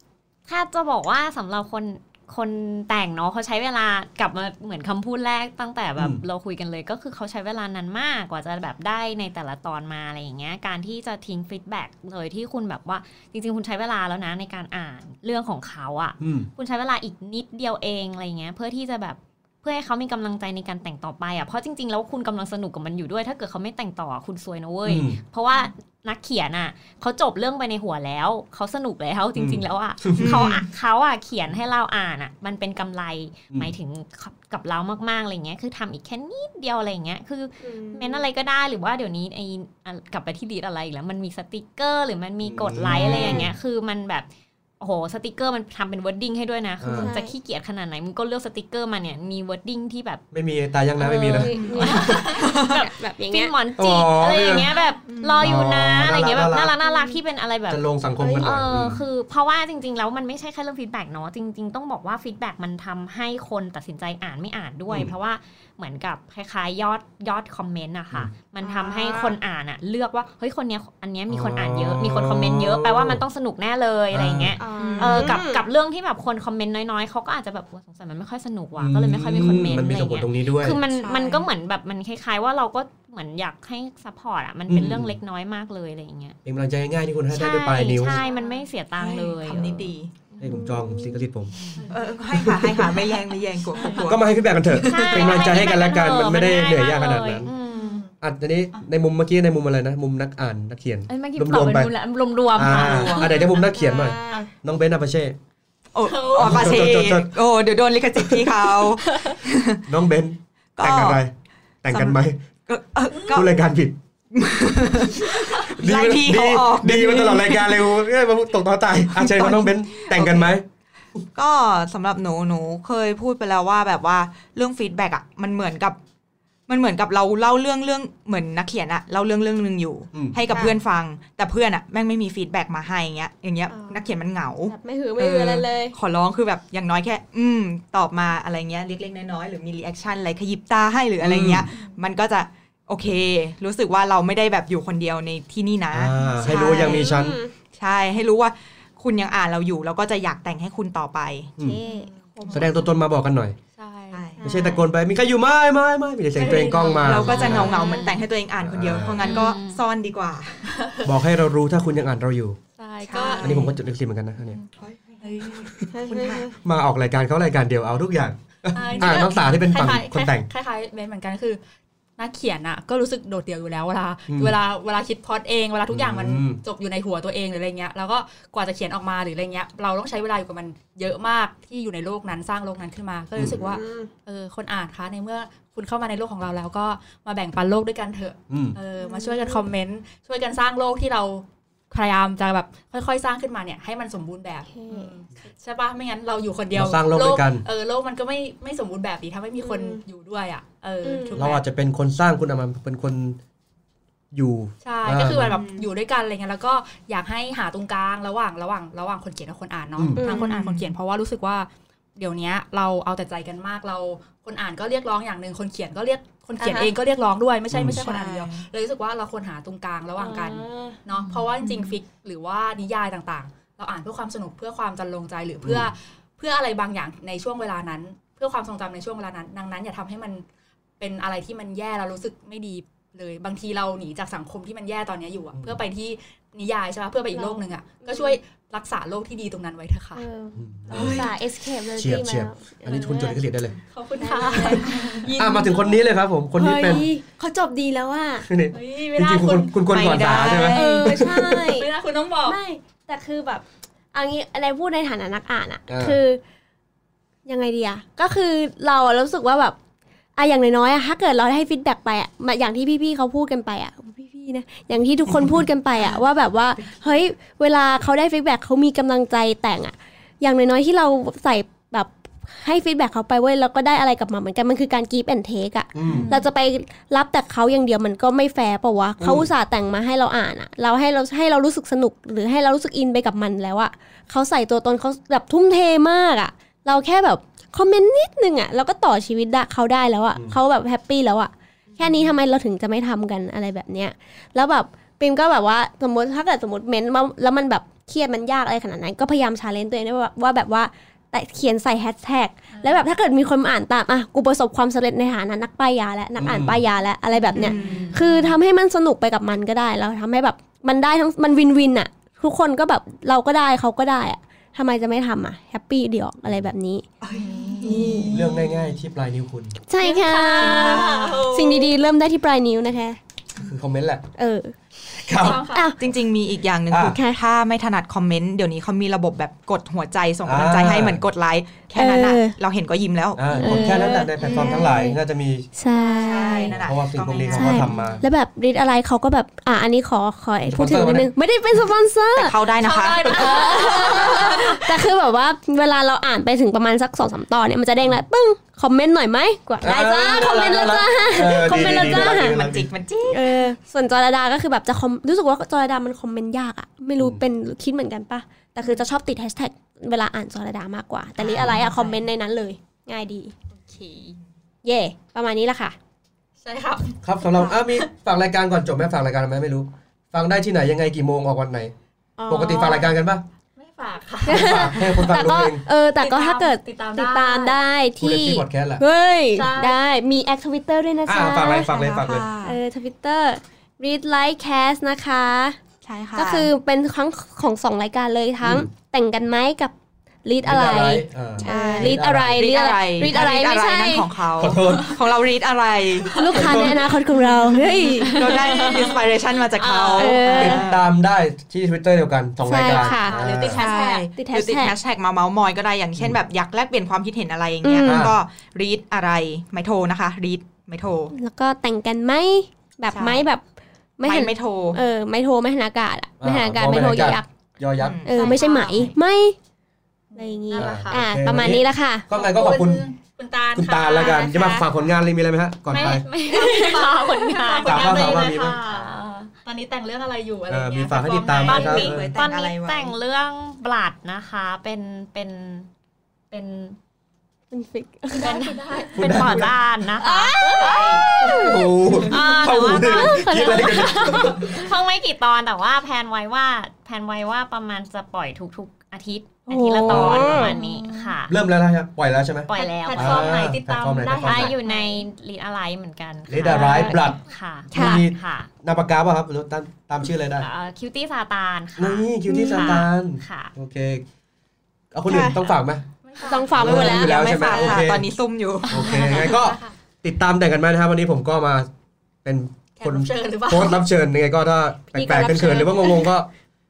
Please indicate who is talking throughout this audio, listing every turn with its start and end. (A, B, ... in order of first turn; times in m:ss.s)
0:00.5-0:44.3 A
0:16.2-0:16.5 B
0:24.8-0:25.2 B
0:29.4-0:30.5 B
0:30.2-0:30.7 C
0:37.6-0:38.2 D
0:42.4-0:43.5 B
0:43.1-0:43.4 C
0:43.2-0:43.4 D
0:44.8-0:50.2 A
0:46.8-0:47.1 B
0:46.9-0:47.3 D
0:50.3-0:51.7 B
0:51.0-0:53.5 D
0:51.0-0:57.8 A
0:51.4-0:52.8 C
0:51.9-0:52.4 E
0:53.8-0:54.7 B
0:55.0-0:55.6 C
0:55.4-0:56.7 B
0:56.8-0:57.2 D
0:57.7-0:59.0 B
0:58.2-0:58.5 D
0:58.4-1:26.4 A
1:08.6-1:09.4 D
1:11.3-1:13.2 B
1:14.1-1:14.6 B
1:14.6-1:15.6 D
1:14.7-1:15.4 C
1:18.8-1:20.8 B
1:20.8-1:21.5 C
1:24.7-1:25.2 B
1:26.4-1:28.2 B
1:27.3-1:30.6 A
1:28.2-1:30.1 C
1:30.4-1:31.5 B
1:30.5-1:31.2 D
1:31.8-1:35.5 C
1:32.3-1:33.0 B
1:33.7-1:34.1 E
1:34.0-1:37.5 B
1:34.8-1:38.0 A
1:37.7-1:38.1 E
1:38.2-1:41.9 B
1:41.1-1:43.3 A
1:42.5-1:45.4 B
1:42.6-1:43.4 C
1:43.6-1:44.5 D
1:45.9-1:49.8 C
1:46.0-1:47.0 E
1:46.3-1:47.4 B
1:49.9-1:51.3 B
1:50.8-1:51.2 C
1:51.8-1:52.4 B
1:51.9-1:53.6 C
1:53.1-1:53.4 E
1:53.3-1:54.0 B
1:54.3-1:57.8 C
1:55.2-2:00.6 B
1:59.1-2:00.6 C
2:01.3-2:06.0 C
2:06.7-2:27.2 C
2:10.1-2:10.4 B
2:13.7-2:14.1 D
2:14.7-2:16.0 D
2:21.2-2:21.7 B
2:25.9-2:27.4 B
2:26.4-2:27.5 D
2:27.7-2:31.5 C
2:31.6-2:32.7 D
2:31.8-2:32.7 E
2:32.5-2:33.6 B
2:33.8-2:34.8 E
2:34.1-2:34.5 C
2:34.4-2:34.8 D
2:34.4-2:37.8 B
2:36.4-2:38.2 E
2:36.6-2:40.7 C
2:37.5-2:38.1 A
2:38.6-2:39.4 B
2:39.2-2:39.8 A
2:40.7-2:41.1 E
2:41.0-2:42.6 B
2:42.8-2:43.8 E
2:43.0-2:43.5 D
2:43.4-2:44.6 B
2:44.8-2:46.5 C
2:45.2-2:46.4 E
2:45.9-2:46.5 D
2:46.6-2:50.5 B
2:48.7-2:51.6 E
2:52.2-3:21.6 E
2:54.3-2:54.6 B
2:55.9-2:56.6 B
3:03.5-3:04.1 D
3:08.5-3:08.8 B
3:09.0-3:09.6 D
3:14.7-3:15.2 D
3:16.7-3:17.6 B
3:19.6-3:20.0 D
3:21.0-3:21.4 D
3:21.4-3:23.4 B
3:24.3-3:25.6 B
3:24.8-3:50.4 E
3:25.2-3:25.9 C
3:30.0-3:30.3 B
3:30.2-3:30.5 D
3:30.4-3:30.9 C
3:36.6-3:36.9 D
3:37.7-3:38.0 B
3:37.9-3:38.5 D
3:40.2-3:41.0 D
3:41.2-3:42.0 C
3:45.6-3:45.9 B
3:51.0-4:00.2 E
3:55.5-3:55.8 B
3:57.3-3:58.4 D
4:00.2-4:03.4 D
4:00.6-4:01.3 B
4:00.9-4:01.3 C
4:01.9-4:03.8 B
4:03.9-4:06.0 E
4:04.2-4:05.3 D
4:04.5-4:07.0 B
4:06.6-4:08.5 D
4:08.4-4:11.0 B
4:08.7-4:12.6 E
4:09.9-4:11.4 C
4:10.7-4:11.9 D
4:12.4-4:16.4 D
4:15.9-4:16.2 B
4:17.4-4:19.8 D
4:20.4-5:17.0 D
4:35.9-4:36.3 B
4:36.0-4:36.5 E
4:39.2-4:39.5 B
4:51.9-4:52.3 C
5:02.7-5:03.0 E
5:06.4-5:06.8 B
5:07.4-5:08.4 C
5:07.4-5:08.5 E
5:16.4-5:16.7 B
5:17.2-5:18.3 C
5:17.3-5:18.7 E
5:17.8-5:18.3 D
5:18.3-5:19.8 B
5:19.9-5:23.2 D
5:20.0-5:21.9 E
5:20.5-5:21.7 C
5:23.6-5:24.3 B
5:24.4-5:24.8 D
5:25.2-5:25.6 B
5:25.4-5:26.0 D
5:25.4-5:26.0 E
5:26.0-5:34.8 C
5:26.9-5:27.2 B
5:27.0-5:27.4 D
5:30.4-5:31.2 B
5:31.9-5:32.6 D
5:33.4-5:35.7 B
5:33.5-5:35.2 D
5:35.7-5:36.7 D
5:36.0-5:38.2 C
5:36.1-5:36.6 E
5:36.7-5:38.2 B
5:37.4-5:52.6 D
5:40.6-5:41.3 B
5:42.3-5:44.4 C
5:42.8-5:44.9 E
5:49.8-5:52.9 B
5:51.6-5:53.7 C
5:53.3-6:03.5 D
6:01.4-6:01.8 E
6:01.4-6:02.2 C
6:03.7-6:04.4 E
6:04.8-6:06.0 D
6:06.6-6:08.0 E
6:07.2-6:11.9 B
6:12.4-6:13.1 D
6:12.5-6:13.4 B
6:13.8-6:14.9 E
6:14.4-6:21.9 D
6:14.5-6:15.8 B
6:16.2-6:17.8 E
6:18.2-6:19.0 B
6:19.5-6:20.0 E
6:21.2-6:22.5 B
6:21.7-6:22.8 C
6:22.6-6:25.8 D
6:26.0-6:26.7 C
6:26.3-6:29.9 D
6:28.6-6:28.9 B
6:30.4-6:34.4 D
6:30.6-6:32.6 B
6:31.6-6:36.5 C
6:34.6-6:35.2 B
6:36.3-6:38.9 D
6:36.3-6:36.8 E
6:36.5-6:37.1 B
6:37.5-6:41.0 C
6:37.6-6:40.9 E
6:40.2-6:40.9 D
6:40.6-6:43.8 B
6:42.6-6:44.9 D
6:42.8-6:44.3 E
6:43.6-6:51.3 C
6:47.8-6:48.3 D
6:48.0-6:48.3 B
6:51.3-6:53.6 D
6:53.1-6:53.4 C
6:54.2-6:57.5 D
6:54.2-6:55.0 C
6:56.4-6:58.2 B
6:58.0-6:58.6 C
6:58.2-6:59.6 D
6:58.3-6:59.1 E
7:00.3-7:01.2 E
7:00.3-7:02.2 D
7:00.8-7:03.0 B
7:02.3-7:04.7 E
7:03.7-7:06.2 B
7:04.2-7:04.9 D
7:05.9-7:09.5 A
7:05.9-7:09.1 E
7:07.8-7:08.8 B
7:09.6-7:12.0 E
7:10.7-7:12.3 B
7:11.6-7:13.2 C
7:11.6-7:15.9 A
7:16.5-7:17.0 A
7:17.7-7:19.0 D
7:18.3-7:19.7 E
7:18.4-7:20.9 A
7:19.1-7:19.7 B
7:20.2-7:22.2 D
7:20.7-7:21.2 E
7:20.8-7:21.2 C
7:21.4-7:24.9 B
7:22.2-7:31.6 A
7:22.9-7:24.6 D
7:29.7-7:30.8 D
7:30.0-7:30.7 B
7:30.5-7:31.3 E
7:31.5-7:34.7 B
7:32.7-7:33.5 A
7:32.7-7:35.2 E
7:34.4-7:38.7 A
7:36.5-7:37.4 B
7:37.9-7:40.7 B
7:37.9-7:38.3 D
7:40.6-7:43.7 A
7:42.0-7:44.2 B
7:42.5-7:43.0 D
7:45.1-7:46.0 B
7:45.3-7:45.7 D
7:46.2-7:46.8 E
7:46.4-7:48.0 D
7:46.7-7:49.5 C
7:46.7-7:48.3 B
7:48.9-7:51.9 B
7:48.9-7:49.9 E
7:52.4-7:56.5 B
7:53.0-7:54.0 E
7:55.1-7:56.3 D